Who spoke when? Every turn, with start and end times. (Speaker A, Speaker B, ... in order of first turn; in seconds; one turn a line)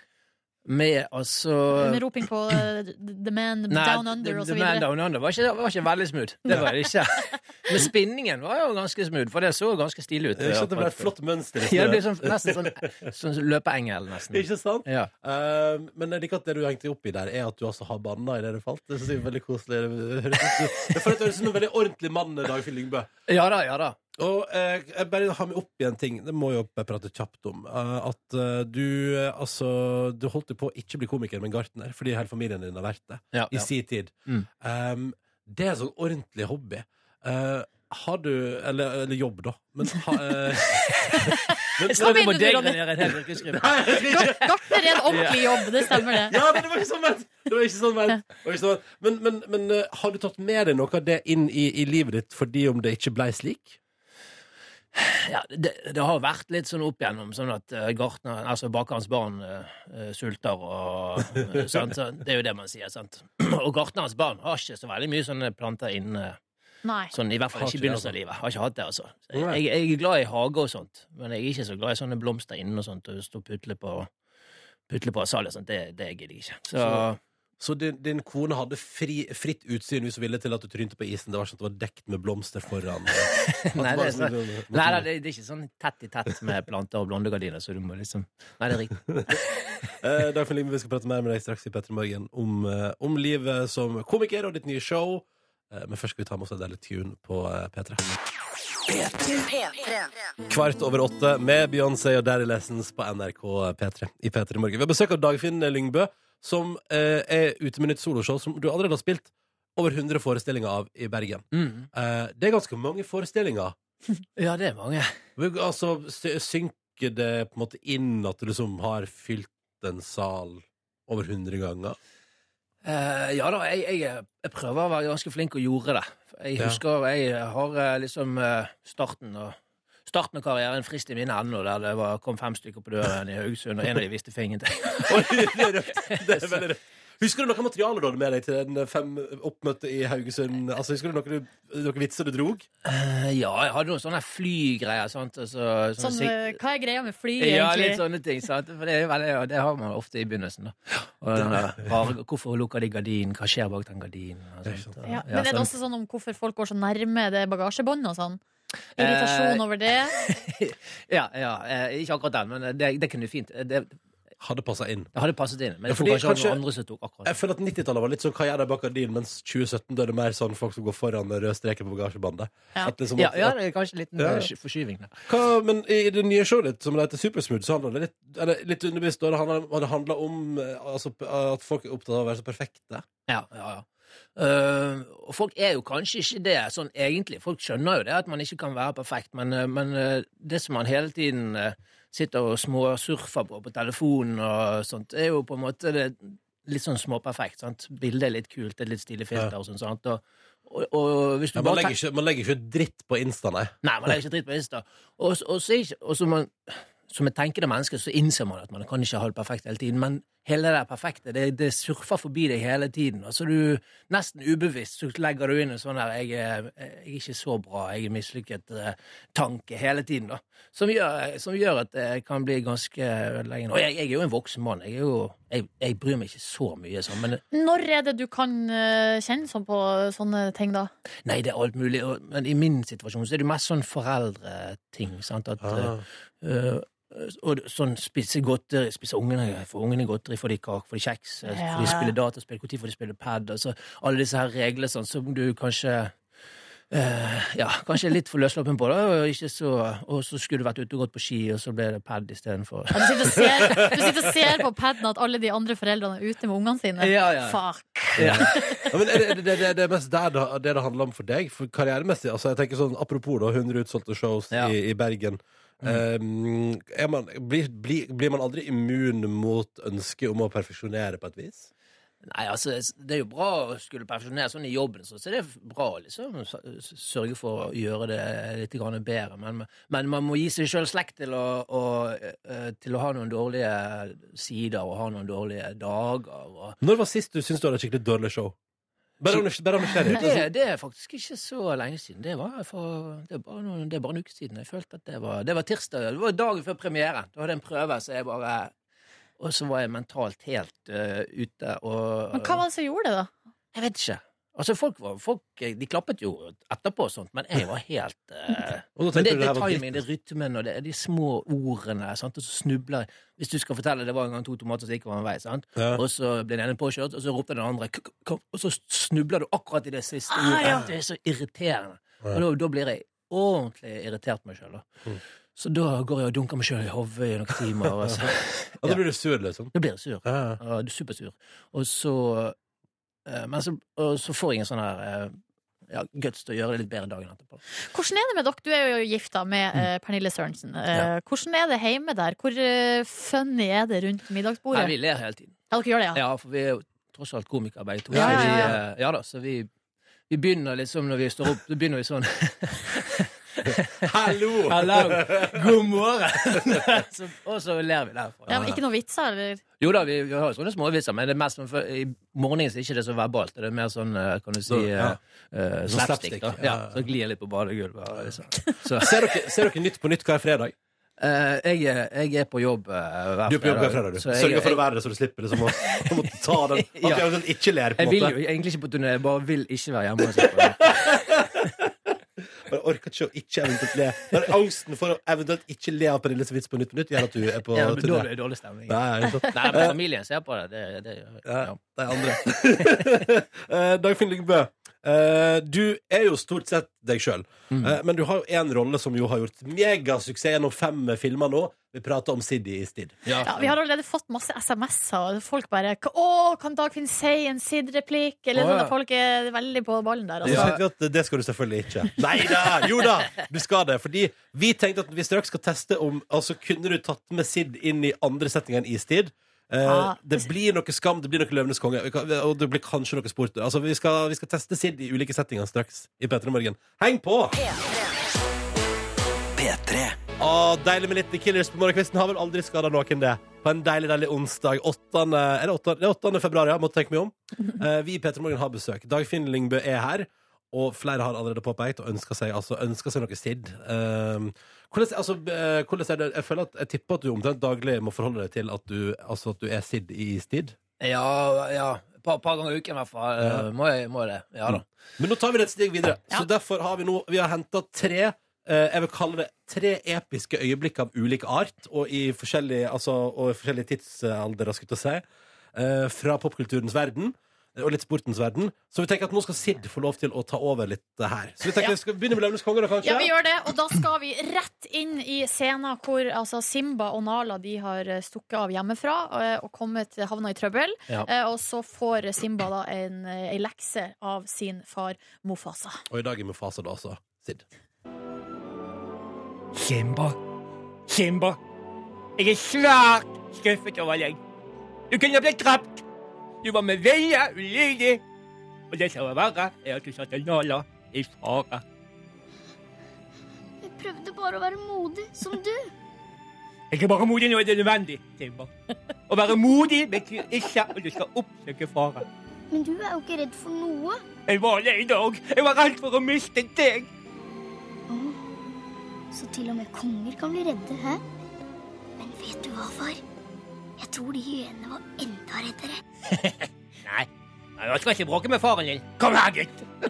Speaker A: 0.7-2.1
Speaker B: 1.8-4.8
Speaker A: 3.7-15.1
Speaker C: 10.4-12.7
Speaker C: 14.3-23.1
Speaker A: 20.4-21.4
Speaker A: 23.3-24.0
Speaker C: 24.2-42.3
Speaker A: 33.3-33.7
Speaker A: 40.5-40.9
Speaker B: 41.1-42.9
Speaker A: 41.8-44.3
Speaker C: 43.5-45.3
Speaker B: 43.9-46.4
Speaker A: 45.1-45.6
Speaker C: 46.2-53.8
Speaker A: 55.0-66.4
Speaker B: 66.8-67.1
Speaker A: 67.1-74.1
Speaker C: 67.6-68.1
Speaker A: 74.9-77.2
Speaker C: 76.8-77.0
Speaker C: 77.6-85.0
Speaker A: 83.2-89.4
Speaker C: 89.1-89.4
Speaker C: 90.0-98.0
Speaker D: 98.9-100.3
Speaker C: 100.5-113.8
Speaker A: 111.5-111.9
Speaker A: 114.4-115.2
Speaker C: 115.4-122.0
Speaker A: 122.8-136.7
Speaker C: 135.1-142.7
Speaker A: 142.8-146.6
Speaker B: 146.0-148.0
Speaker A: 147.4-155.7
Speaker B: 155.1-158.4
Speaker A: 159.0-164.0
Speaker B: 159.0-160.2
Speaker C: 164.4-165.1
Speaker A: 165.1-167.4
Speaker C: 165.9-166.6
Speaker C: 167.2-173.5
Speaker A: 173.2-175.1
Speaker C: 174.2-174.5
Speaker C: 175.3-183.1
Speaker A: 183.3-202.0
Speaker C: 201.6-203.7
Speaker A: 203.8-227.4
Speaker B: 227.5-230.9
Speaker A: 231.2-246.2
Speaker C: 235.6-236.0
Speaker B: 241.5-242.2
Speaker A: 246.9-253.4
Speaker B: 252.9-258.9
Speaker C: 253.4-254.2
Speaker A: 257.0-258.8
Speaker C: 258.2-271.7
Speaker A: 272.2-286.8
Speaker C: 286.8-288.6
Speaker C: 289.2-290.4
Speaker A: 289.3-298.7
Speaker A: 299.4-302.6
Speaker B: 302.3-303.3
Speaker A: 303.7-324.9
Speaker C: 309.0-310.0
Speaker A: 325.6-329.0
Speaker C: 328.8-329.7
Speaker A: 329.7-332.6
Speaker C: 330.3-330.6
Speaker A: 333.3-335.4
Speaker A: 335.9-337.6
Speaker B: 337.9-344.9
Speaker A: 344.7-345.6
Speaker B: 345.7-346.2
Speaker A: 346.1-349.7
Speaker C: 348.1-348.8
Speaker B: 348.1-348.8
Speaker A: 350.3-358.8
Speaker C: 354.0-355.5
Speaker B: 358.5-359.6
Speaker A: 359.8-369.2
Speaker C: 364.7-365.2
Speaker C: 365.9-366.9
Speaker C: 369.0-370.8
Speaker A: 371.2-374.9
Speaker C: 373.5-378.4
Speaker A: 375.6-377.3
Speaker A: 378.0-381.2
Speaker C: 380.8-381.9
Speaker C: 382.6-388.3
Speaker A: 387.7-393.2
Speaker C: 388.9-389.9
Speaker C: 391.5-403.2
Speaker A: 397.7-398.0
Speaker A: 403.3-403.7
Speaker B: 403.4-410.8
Speaker A: 408.6-408.9
Speaker A: 410.4-410.8
Speaker C: 410.4-427.6
Speaker B: 419.9-420.5
Speaker D: 427.6-428.0
Speaker C: 430.4-450.8
Speaker A: 451.0-454.8
Speaker C: 454.7-473.3
Speaker B: 473.0-486.0
Speaker C: 486.1-487.6
Speaker E: 489.8-490.3
Speaker E: 491.1-491.6
Speaker E: 492.4-494.4
Speaker E: 495.1-496.0
Speaker E: 496.6-498.2
Speaker E: 498.9-501.8
Speaker F: 503.8-505.9
Speaker E: 506.9-508.7
Speaker E: 509.3-512.2
Speaker F: 512.7-514.2
Speaker E: 514.5-517.1
Speaker F: 518.1-518.4
Speaker F: 519.3-521.2
Speaker F: 522.2-523.2
Speaker F: 524.0-526.0
Speaker E: 527.8-529.6